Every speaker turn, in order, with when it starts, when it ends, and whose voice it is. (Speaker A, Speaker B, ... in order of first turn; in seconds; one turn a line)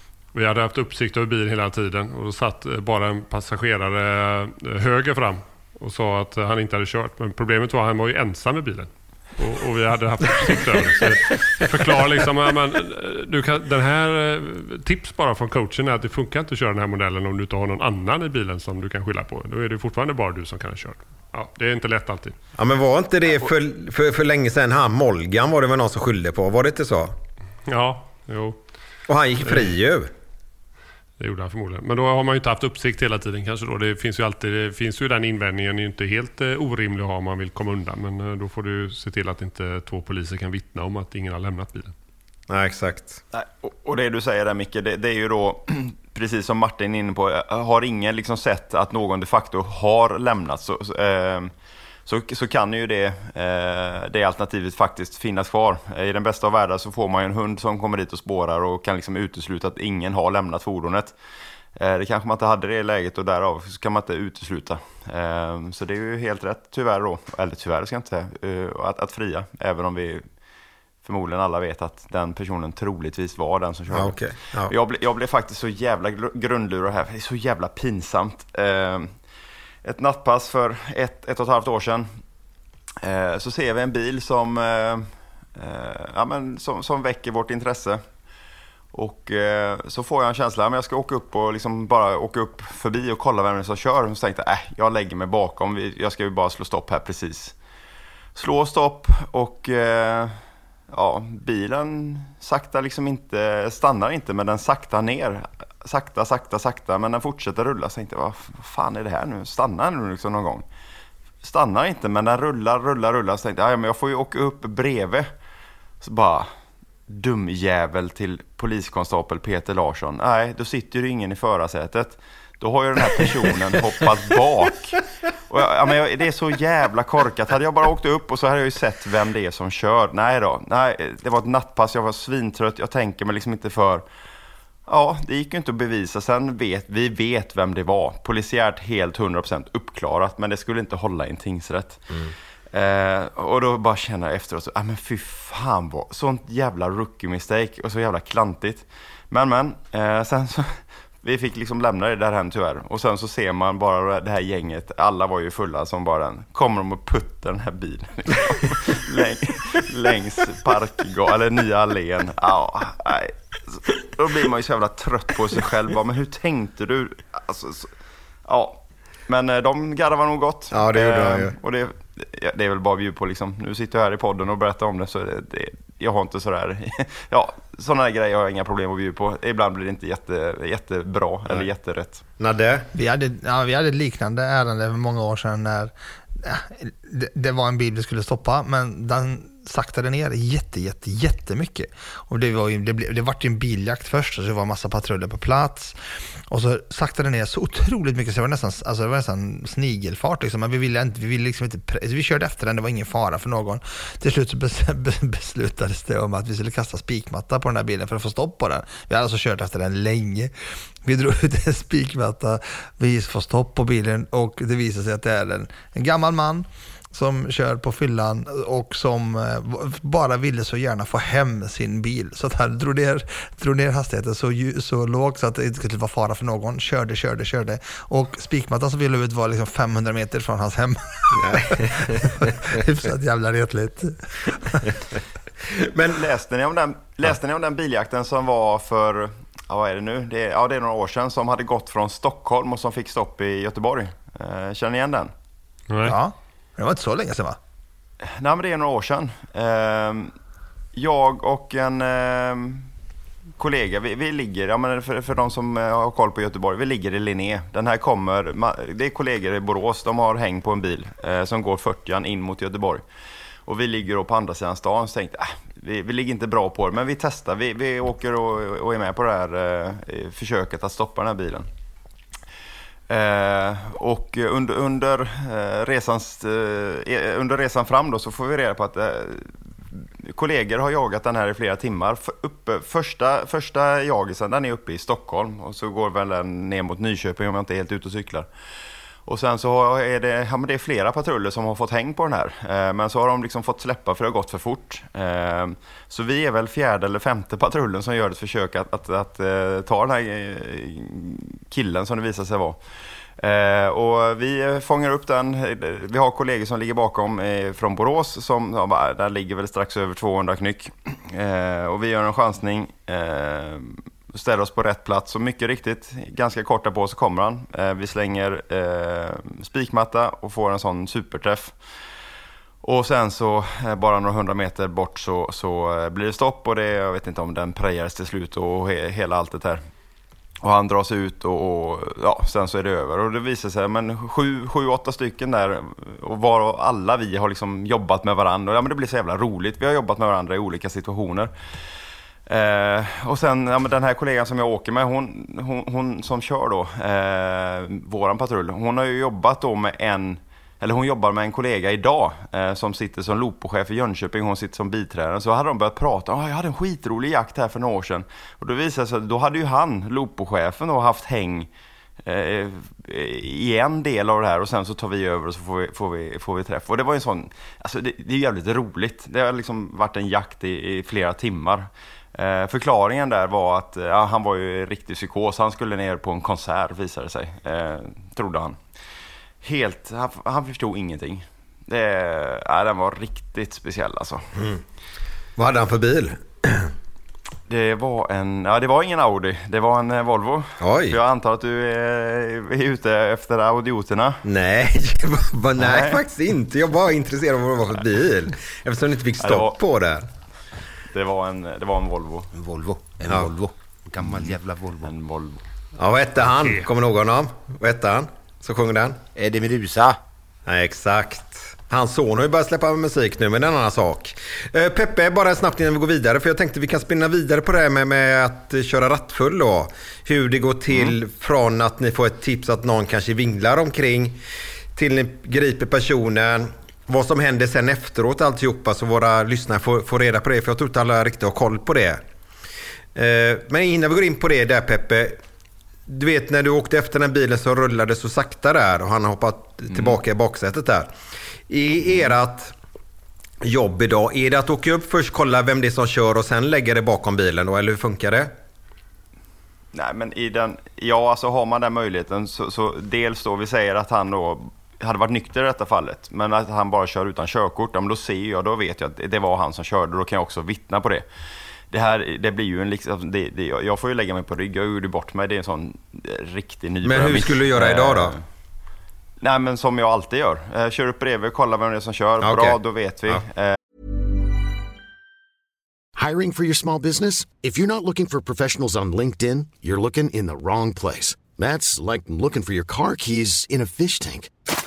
Speaker A: 0.3-22.4
Speaker B: 22.6-27.1
Speaker A: 27.7-28.6
Speaker B: 29.1-30.1
Speaker A: 29.4-29.7
Speaker A: 31.2-41.9
Speaker B: 42.5-43.2
Speaker C: 43.3-51.5
Speaker C: 52.0-61.1
Speaker C: 61.8-70.2
Speaker C: 71.0-79.1
Speaker B: 73.9-74.7
Speaker C: 79.8-82.1
Speaker C: 83.0-88.0
Speaker C: 88.9-97.5
Speaker C: 98.3-100.4
Speaker C: 100.9-110.6
Speaker C: 111.4-115.3
Speaker C: 116.0-116.5
Speaker C: 117.1-134.0
Speaker C: 134.9-142.1
Speaker C: 142.7-167.9
Speaker C: 168.5-182.2
Speaker B: 170.7-171.6
Speaker B: 182.4-182.9
Speaker D: 182.9-195.9
Speaker D: 196.5-210.5
Speaker D: 211.0-234.9
Speaker B: 231.3-232.5
Speaker B: 235.7-236.2
Speaker C: 236.0-245.3
Speaker A: 245.9-246.1
Speaker D: 246.0-247.6
Speaker C: 248.2-250.3
Speaker C: 250.9-252.9
Speaker C: 253.6-263.0
Speaker C: 263.6-271.7
Speaker C: 273.1-288.5
Speaker C: 289.2-302.8
Speaker C: 303.4-321.8
Speaker C: 322.8-329.8
Speaker C: 330.6-341.5
Speaker C: 342.5-361.7
Speaker C: 362.2-378.8
Speaker C: 379.6-384.4
Speaker B: 385.6-386.9
Speaker C: 387.7-394.4
Speaker B: 390.8-391.2
Speaker B: 394.4-400.3
Speaker C: 395.8-396.2
Speaker C: 399.4-399.8
Speaker C: 401.1-402.5
Speaker E: 402.5-405.1
Speaker C: 405.0-405.6
Speaker B: 405.9-409.2
Speaker A: 406.6-406.8
Speaker E: 409.3-410.2
Speaker B: 410.6-424.4
Speaker B: 424.9-432.2
Speaker B: 433.1-435.4
Speaker B: 436.1-441.1
Speaker B: 441.7-442.7
Speaker B: 443.6-448.5
Speaker C: 449.9-461.2
Speaker C: 461.9-468.4
Speaker B: 467.0-468.4
Speaker C: 469.4-473.8
Speaker B: 472.4-473.4
Speaker F: 476.1-484.5